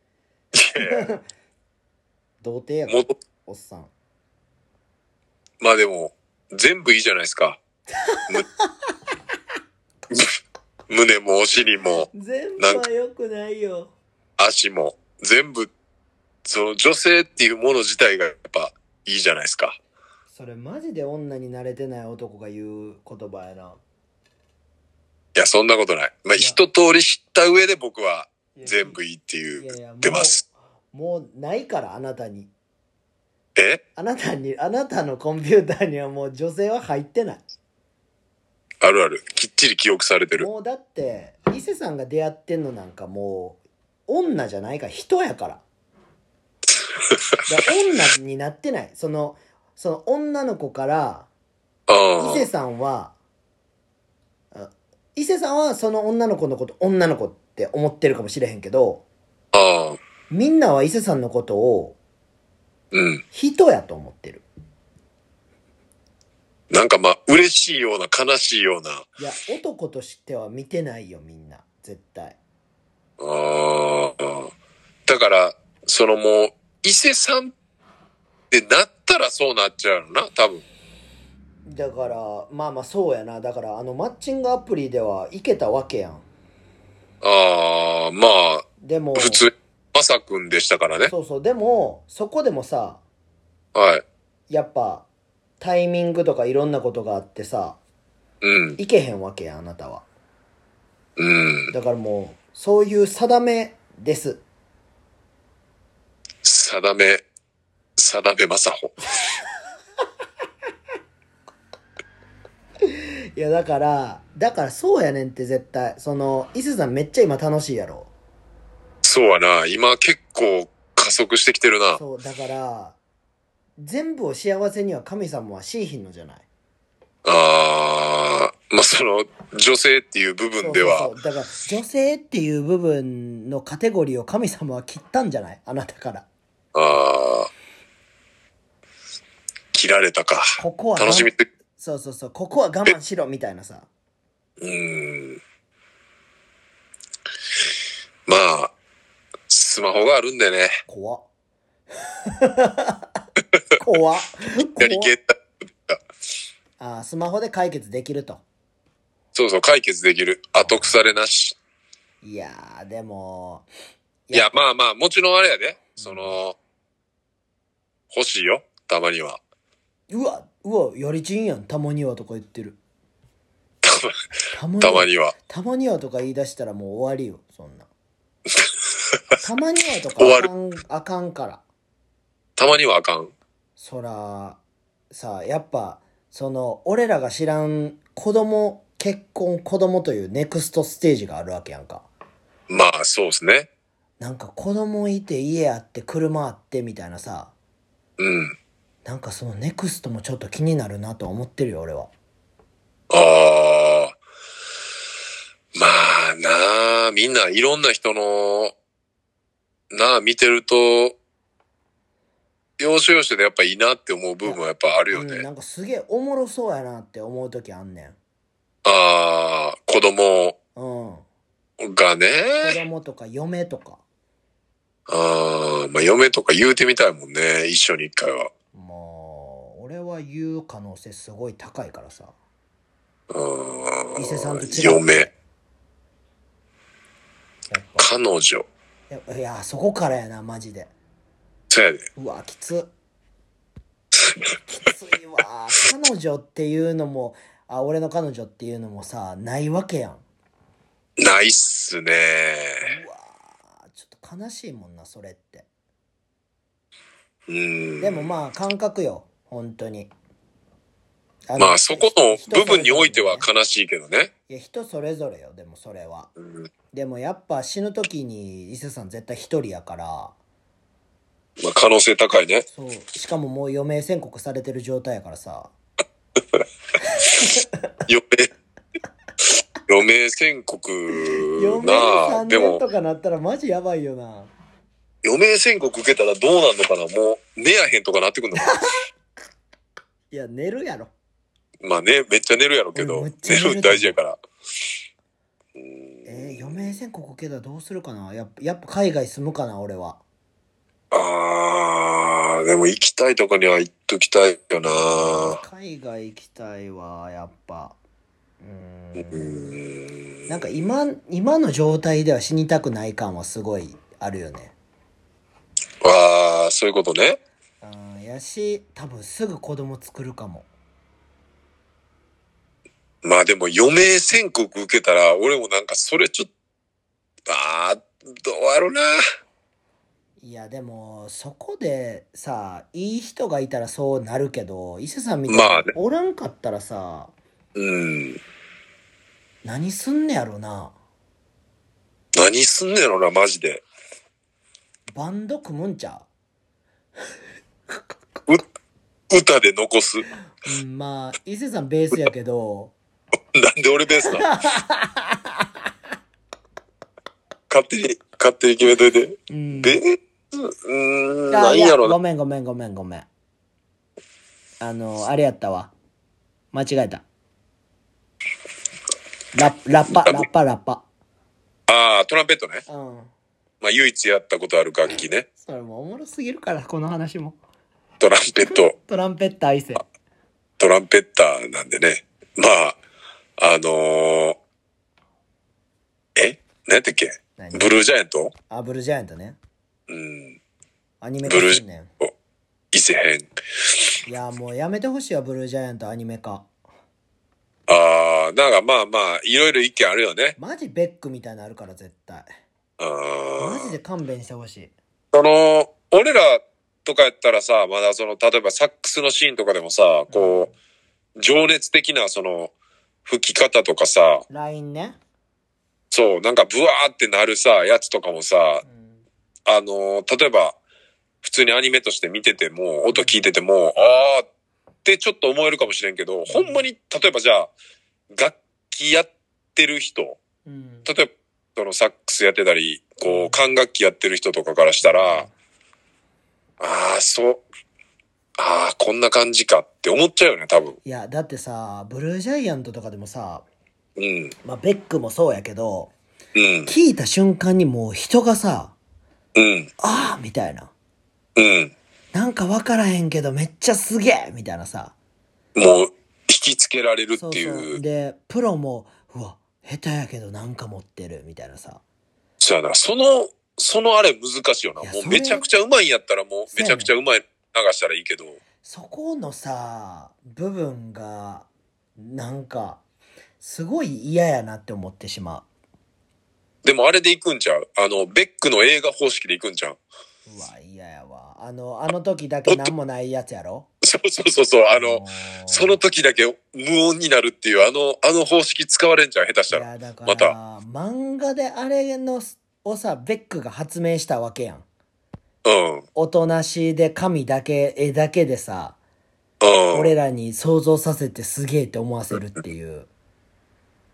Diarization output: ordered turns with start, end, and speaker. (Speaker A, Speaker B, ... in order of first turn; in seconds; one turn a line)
Speaker A: 0.5-1.1
Speaker B: 0.8-1.2
Speaker B: 2.4-3.9
Speaker A: 2.9-3.2
Speaker A: 5.6-7.6
Speaker B: 8.0-8.9
Speaker A: 10.9-12.1
Speaker B: 12.1-13.9
Speaker A: 14.4-15.7
Speaker A: 16.4-19.8
Speaker B: 20.3-23.8
Speaker A: 25.3-30.4
Speaker B: 28.6-29.0
Speaker B: 29.6-32.5
Speaker A: 33.5-33.8
Speaker B: 34.0-37.4
Speaker A: 38.8-40.5
Speaker B: 40.4-45.6
Speaker A: 47.0-47.4
Speaker B: 47.5-51.3
Speaker A: 51.9-52.5
Speaker B: 52.2-53.1
Speaker B: 54.5-59.0
Speaker A: 59.5-60.0
Speaker B: 60.3-62.0
Speaker A: 62.9-63.2
Speaker B: 63.3-64.4
Speaker A: 66.7-69.1
Speaker B: 69.2-72.4
Speaker A: 73.2-74.5
Speaker A: 75.0-77.5
Speaker A: 78.5-80.6
Speaker B: 81.6-86.3
Speaker A: 87.2-91.1
Speaker B: 88.8-89.5
Speaker B: 91.1-93.0
Speaker A: 93.7-94.0
Speaker B: 94.5-95.0
Speaker B: 95.6-97.8
Speaker A: 98.4-98.8
Speaker B: 98.8-100.0
Speaker A: 101.2-101.7
Speaker B: 101.7-104.4
Speaker A: 106.4-107.2
Speaker A: 108.0-109.0
Speaker B: 112.8-118.1
Speaker A: 119.0-122.0
Speaker B: 122.0-123.0
Speaker B: 123.8-126.5
Speaker A: 127.2-131.1
Speaker B: 130.6-136.3
Speaker A: 136.7-137.5
Speaker A: 139.7-141.5
Speaker B: 140.6-143.9
Speaker A: 144.6-145.4
Speaker A: 148.3-148.7
Speaker A: 149.5-150.8
Speaker B: 150.9-151.2
Speaker B: 152.3-153.1
Speaker B: 153.8-155.1
Speaker A: 154.8-156.0
Speaker B: 156.8-158.4
Speaker A: 159.3-161.6
Speaker B: 160.6-161.0
Speaker B: 162.2-163.7
Speaker B: 164.3-164.6
Speaker A: 164.3-166.6
Speaker B: 166.0-166.4
Speaker A: 168.1-169.4
Speaker B: 170.1-172.8
Speaker A: 173.8-174.2
Speaker B: 174.5-177.9
Speaker A: 174.8-175.3
Speaker A: 178.5-179.4
Speaker B: 179.4-181.6
Speaker A: 180.2-180.5
Speaker A: 182.6-183.3
Speaker B: 183.8-184.6
Speaker B: 185.1-192.1
Speaker A: 192.7-193.7
Speaker B: 194.2-197.5
Speaker A: 198.2-198.6
Speaker B: 199.1-202.1
Speaker A: 203.1-204.2
Speaker A: 205.7-208.7
Speaker A: 209.9-211.2
Speaker A: 212.8-215.4
Speaker B: 215.1-218.2
Speaker A: 218.8-220.6
Speaker B: 220.7-221.2
Speaker A: 221.8-222.8
Speaker B: 222.6-224.0
Speaker A: 225.1-228.5
Speaker B: 228.7-232.3
Speaker A: 233.3-235.3
Speaker B: 234.2-235.3
Speaker B: 237.7-238.1
Speaker A: 238.0-238.7
Speaker B: 239.1-240.9
Speaker A: 241.7-242.1
Speaker B: 242.2-242.9
Speaker A: 244.1-244.5
Speaker B: 244.7-250.2
Speaker A: 251.2-252.9
Speaker B: 252.8-255.7
Speaker A: 257.5-258.3
Speaker B: 258.0-260.1
Speaker B: 261.5-263.5
Speaker A: 261.6-264.3
Speaker B: 264.5-266.3
Speaker A: 266.4-266.7
Speaker B: 266.9-270.3
Speaker A: 271.6-272.6
Speaker B: 272.7-275.7
Speaker B: 277.0-277.7
Speaker A: 278.1-278.5
Speaker A: 279.9-282.8
Speaker B: 281.1-284.5
Speaker A: 285.2-288.8
Speaker B: 288.6-289.0
Speaker B: 290.3-291.1
Speaker A: 291.8-294.4
Speaker B: 292.9-294.2
Speaker A: 295.8-296.9
Speaker B: 296.2-300.2
Speaker A: 301.1-305.6
Speaker B: 304.8-307.9
Speaker B: 308.6-309.8
Speaker A: 309.2-310.4
Speaker B: 310.5-314.7
Speaker A: 316.0-317.4
Speaker B: 317.8-320.7
Speaker A: 323.2-326.5
Speaker A: 327.5-329.2
Speaker B: 330.4-337.3
Speaker A: 335.5-335.9
Speaker A: 337.7-338.4
Speaker B: 339.6-340.9
Speaker A: 342.3-343.8
Speaker B: 345.1-346.3
Speaker A: 349.3-350.3
Speaker B: 350.6-352.9
Speaker A: 353.5-354.5
Speaker B: 354.2-355.7
Speaker A: 357.7-362.1
Speaker B: 359.5-360.0
Speaker B: 361.5-363.3
Speaker B: 364.8-365.9
Speaker B: 366.7-367.2
Speaker B: 369.6-371.0
Speaker A: 370.2-370.5
Speaker A: 371.9-372.8
Speaker B: 372.9-373.3
Speaker A: 373.8-375.4
Speaker B: 375.6-377.6
Speaker A: 378.2-378.9
Speaker B: 378.6-380.0
Speaker A: 380.8-383.0
Speaker A: 383.6-384.6
Speaker A: 386.3-388.5
Speaker B: 387.6-387.9
Speaker B: 388.7-389.6
Speaker A: 390.1-390.6
Speaker B: 391.2-392.1
Speaker A: 391.4-392.3
Speaker A: 392.9-394.1
Speaker B: 394.3-396.7
Speaker A: 397.9-400.6
Speaker B: 400.6-402.5
Speaker A: 403.0-403.9
Speaker B: 403.6-404.9
Speaker A: 405.3-410.7
Speaker B: 410.3-410.7
Speaker A: 411.4-412.7
Speaker A: 413.2-414.4
Speaker B: 414.5-415.2
Speaker A: 416.1-418.8
Speaker B: 418.8-419.2
Speaker A: 419.7-420.8
Speaker A: 421.4-424.4
Speaker B: 423.1-423.5
Speaker A: 425.0-427.7
Speaker B: 426.5-426.8
Speaker A: 428.3-430.4
Speaker B: 430.6-431.1
Speaker A: 431.1-435.4
Speaker B: 433.2-433.7
Speaker B: 435.0-435.5
Speaker A: 436.8-437.6
Speaker A: 438.6-441.0
Speaker B: 441.1-443.6
Speaker A: 444.2-444.5
Speaker B: 444.6-446.1
Speaker A: 446.6-446.9
Speaker B: 446.9-448.9
Speaker A: 449.6-449.9
Speaker B: 450.0-450.9
Speaker A: 451.6-451.9
Speaker B: 452.3-455.1
Speaker A: 455.7-458.0
Speaker B: 457.4-462.0
Speaker A: 462.6-468.6
Speaker B: 465.0-465.6
Speaker B: 466.7-467.1
Speaker B: 468.8-473.0
Speaker B: 473.6-475.7
Speaker A: 476.8-480.0
Speaker B: 480.5-483.9
Speaker A: 482.7-482.9
Speaker A: 484.0-490.5
Speaker B: 484.9-486.0
Speaker B: 489.7-494.8
Speaker A: 495.6-496.1
Speaker B: 496.1-499.0
Speaker A: 499.6-500.1
Speaker B: 499.9-503.1